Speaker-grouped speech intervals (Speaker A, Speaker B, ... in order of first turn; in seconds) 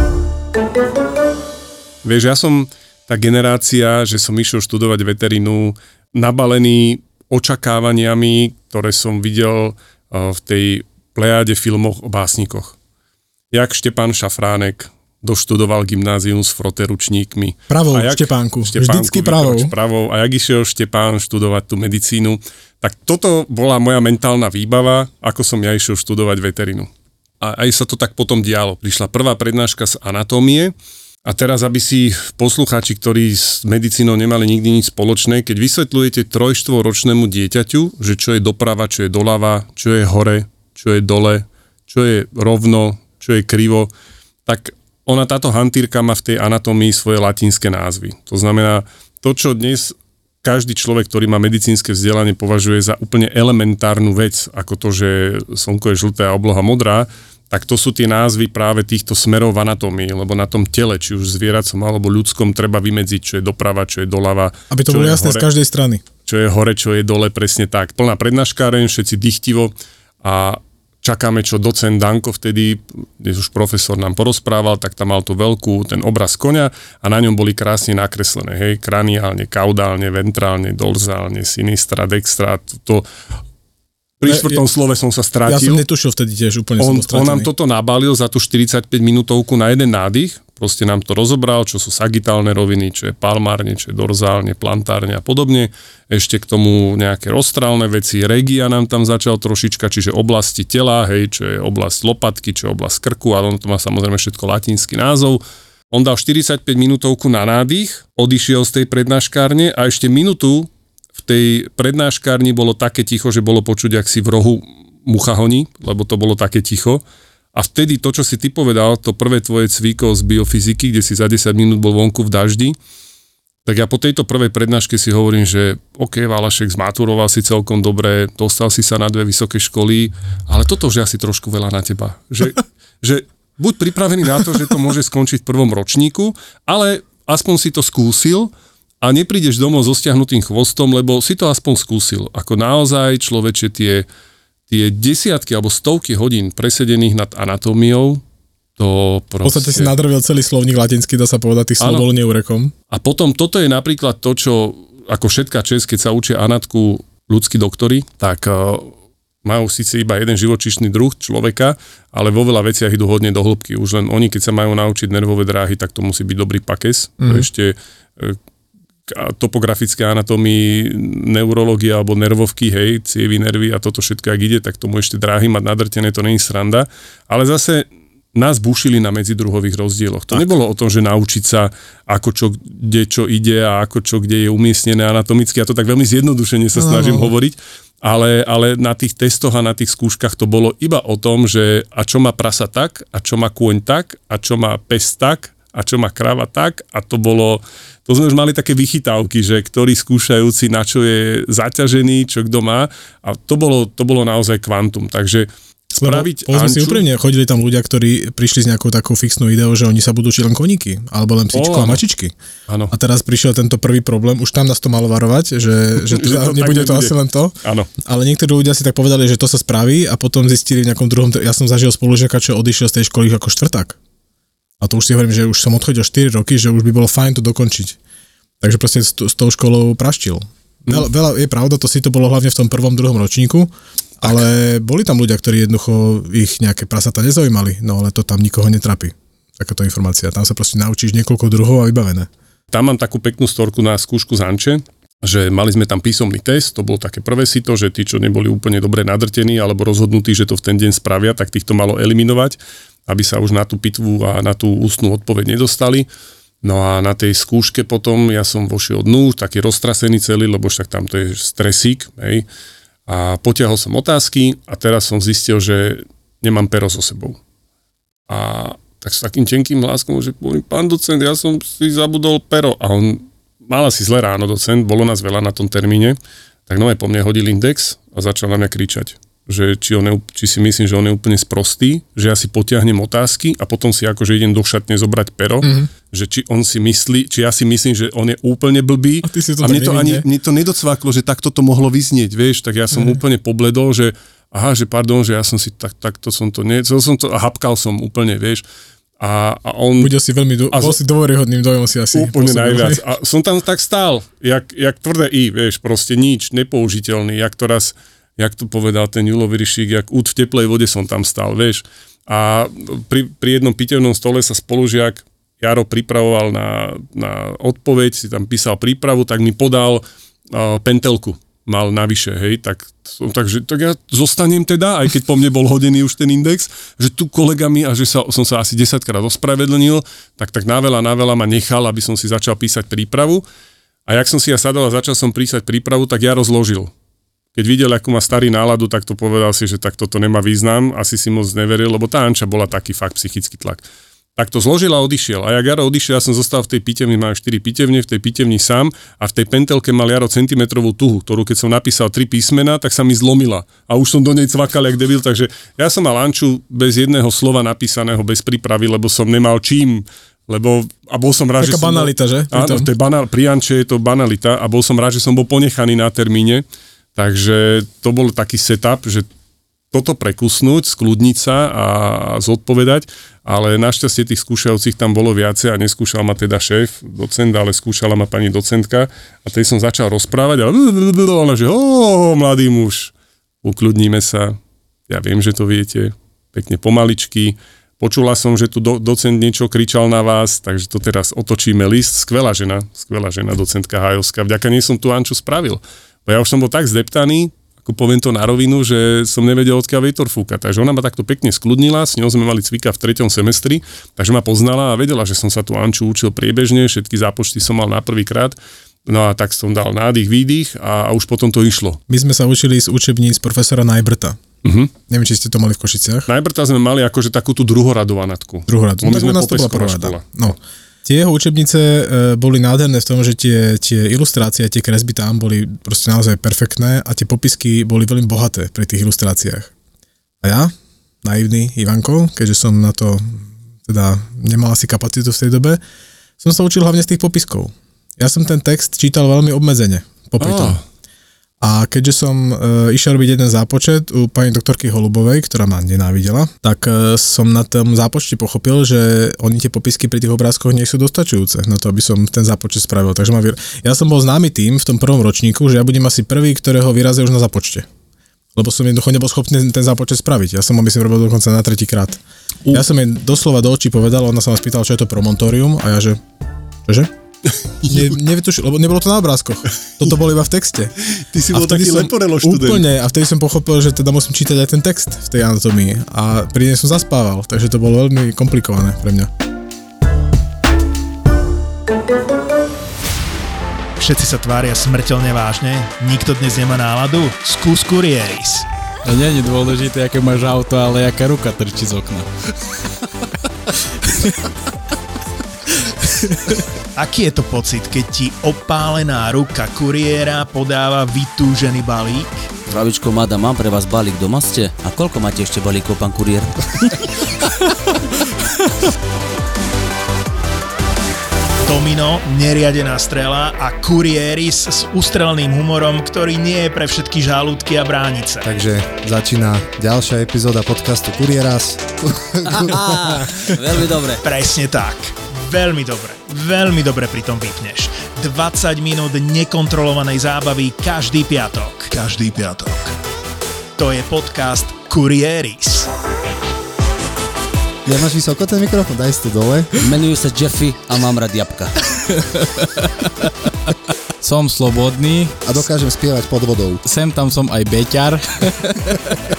Speaker A: 2.0-12.8, 13.5-26.9, 27.4-30.7, 31.2-43.9, 44.5-65.5, 66.3-83.1, 84.2-85.8, 86.8-117.0, 117.5-122.8, 123.7-138.5, 139.0-144.1, 144.7-148.2, 148.8-149.9, 151.8-152.1, 152.9-158.9, 159.4-168.4, 169.1-207.1, 211.5-212.0, 212.7-212.9, 216.0-217.9, 242.7-256.1, 256.6-262.5, 263.1-267.4, 268.3-276.2, 276.7-298.6, 299.2-300.1, 300.7-301.0, 302.1-333.4, 334.1-336.9, 337.6-343.8, 344.4-366.6, 367.1-369.3, 369.9-412.0, 414.6-414.9, 416.3-420.2, 440.4-440.8, 467.8-468.1, 471.1-472.9
Speaker B: 17.7-19.7, 64.7-66.0, 84.3-84.6, 85.5-87.5, 149.4-152.7, 167.2-167.5, 186.8-187.3, 206.0-212.3, 212.9-224.0, 224.8-228.0, 228.6-242.3, 285.6-285.9, 289.2-290.2, 292.9-293.2, 300.0-303.0, 361.6-362.9, 412.1-414.4, 415.1-416.3, 418.7-429.7, 430.4-430.7, 431.2-435.8, 436.4-440.8, 441.6-457.9, 458.6-466.2, 466.9-467.1, 467.8-470.9, 471.5-479.3
Speaker C: 484.0-488.7, 497.0-502.3, 511.6-518.5, 524.2-532.9, 533.8-535.9
Speaker D: 489.1-492.8, 494.0-494.4, 495.8-496.6, 542.4-543.1, 544.2-545.4, 546.9-549.0
Speaker E: 502.7-506.9, 522.5-524.2, 539.8-541.7
Speaker F: 518.5-523.1, 537.9-539.8, 545.4-546.8